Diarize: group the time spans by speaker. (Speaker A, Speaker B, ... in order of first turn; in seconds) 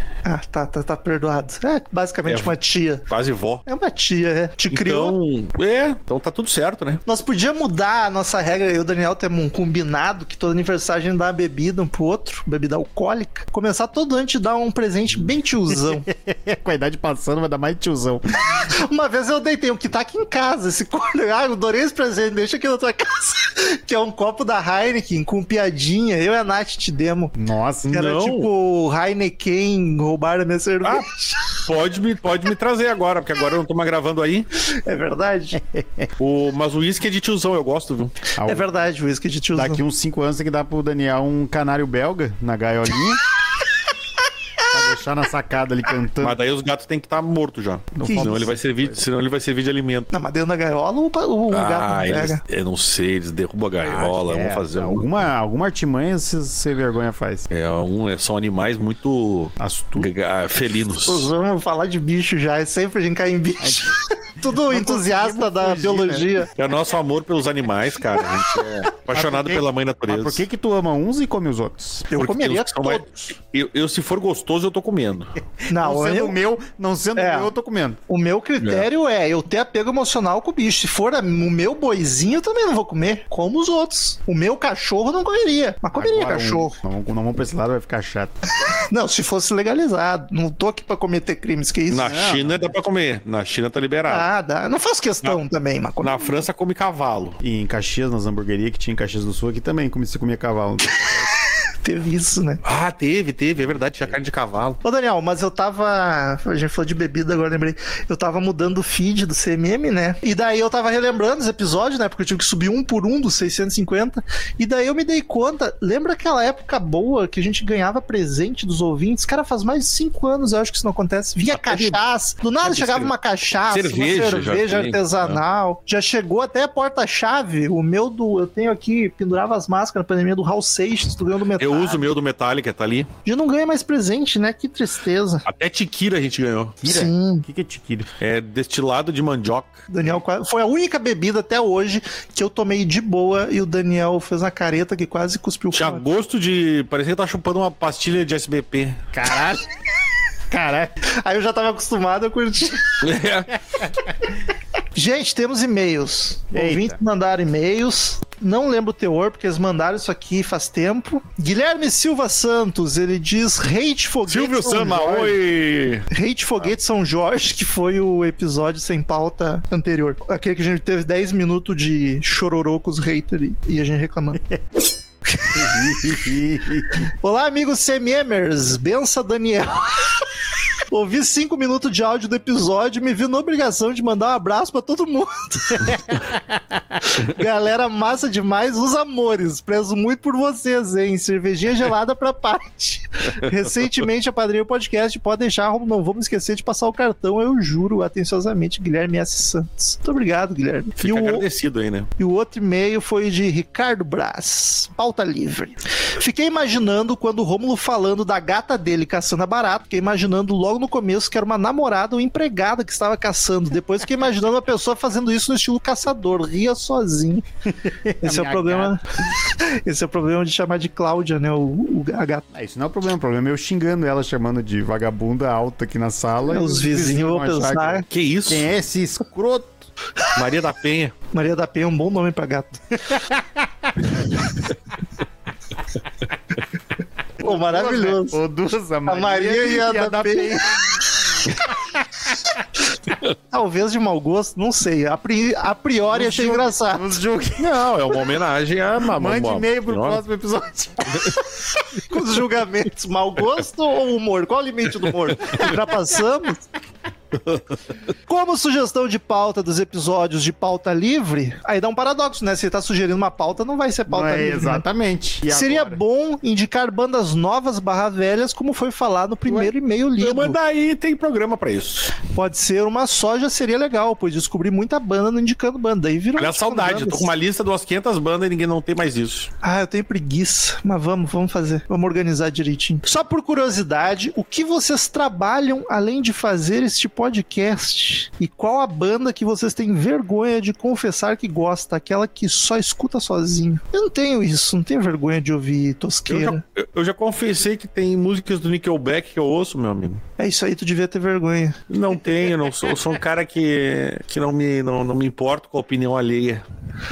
Speaker A: 0.2-3.1, 3.7-5.2, 7.1-16.1, 18.5-27.3, 27.9-31.6, 34.7-35.6, 38.4-39.8, 48.0-48.5, 50.1-52.4, 61.0-66.5, 72.1-73.3, 75.7-76.4, 77.2-77.5, 78.1-86.8, 88.9-92.2, 94.1-96.4, 101.8-102.6, 104.8-132.1, 133.2-135.5, 136.9-137.5, 139.9-146.1, 151.1-153.0, 154.9-165.4, 166.1-174.4, 175.4-175.7, 177.1-179.9, 180.9-186.1, 187.0-201.5, 202.2-217.4, 218.2-222.4, 226.4-228.1, 231.3-233.0, 237.4-238.4, 239.1-241.2, 243.5-247.2, 252.0-256.6, 258.3-264.9, 265.5-270.6, 272.3-277.3, 279.6-296.6, 300.4-301.8
Speaker B: 2.2-2.5, 3.1-3.6, 4.7-7.0, 27.9-28.5, 31.6-34.5, 36.2-38.1, 46.2-50.1, 51.5-55.2, 57.5-61.3, 66.6-70.4, 72.2-75.3, 78.6-78.9, 91.9-94.3, 96.0-97.4, 102.6-104.8, 121.5-122.0, 122.6-123.1, 123.7-125.4, 131.6-133.1, 135.5-136.8, 138.2-139.9, 145.7-149.0, 153.0-153.6, 164.3-166.1, 201.0-202.1, 228.1-228.7, 230.3-231.1, 247.6-250.2, 257.3-257.9, 270.2-272.1, 276.4-279.5, 296.3-300.2, 301.9-306.6
Speaker C: 15.7-18.2, 27.4-27.9, 35.5-36.1, 38.4-38.6, 39.5-43.2, 44.7-46.4, 47.9-49.0, 53.8-57.5, 59.6-60.1, 63.6-66.4, 69.1-72.1, 75.4-78.0, 85.9-88.3, 92.0-92.7, 97.4-101.3, 136.8-138.1, 149.1-149.7, 150.5-151.0, 153.8-154.3, 156.5-157.0, 175.5-177.1, 217.7-219.0, 222.5-229.9, 233.1-234.2, 237.4-241.6, 246.1-247.8, 249.1-251.3, 264.1-266.0